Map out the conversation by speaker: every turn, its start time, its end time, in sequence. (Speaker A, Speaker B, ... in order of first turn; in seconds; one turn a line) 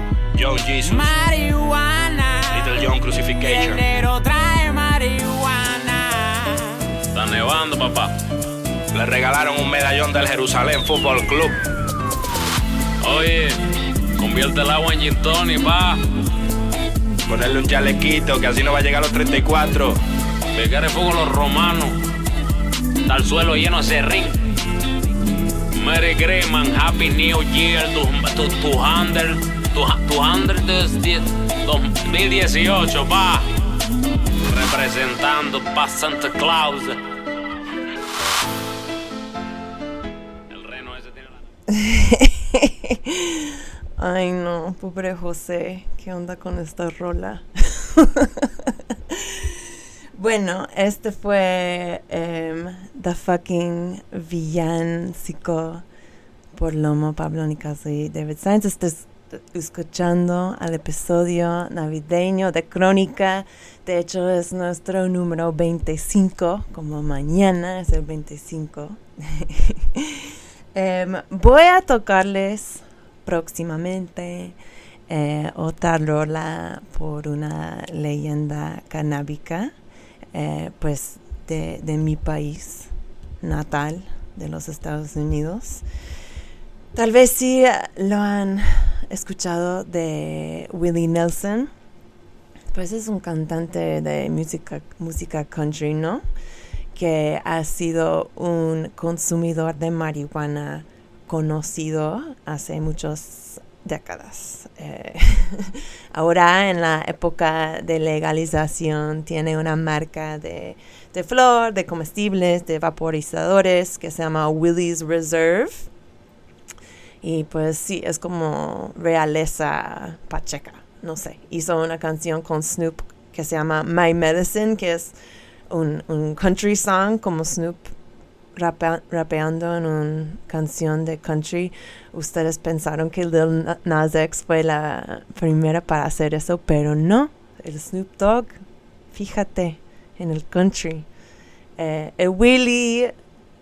Speaker A: 0.3-1.1
Speaker B: 0.8-2.9
Speaker A: 2.5-3.8
Speaker B: 3.4-6.8
Speaker C: 7.1-8.1
Speaker A: 8.9-11.6
Speaker C: 13.0-13.6
Speaker C: 14.2-16.0
Speaker A: 17.3-20.0
Speaker C: 20.5-22.0
Speaker C: 23.1-24.4
Speaker C: 25.7-33.5
Speaker C: 34.5-37.0
Speaker C: 40.5-41.3
Speaker D: 41.7-49.6
Speaker D: 50.2-55.8
Speaker D: 56.5-74.6
Speaker D: 75.1-79.7
Speaker D: 80.3-85.8
Speaker D: 87.0-91.7
Speaker D: 92.7-96.2
Speaker D: 96.9-115.9
Speaker D: 117.2-125.1
Speaker D: 125.7-127.9
Speaker D: 128.6-138.6
Speaker D: 139.1-141.1
Speaker D: 141.8-143.1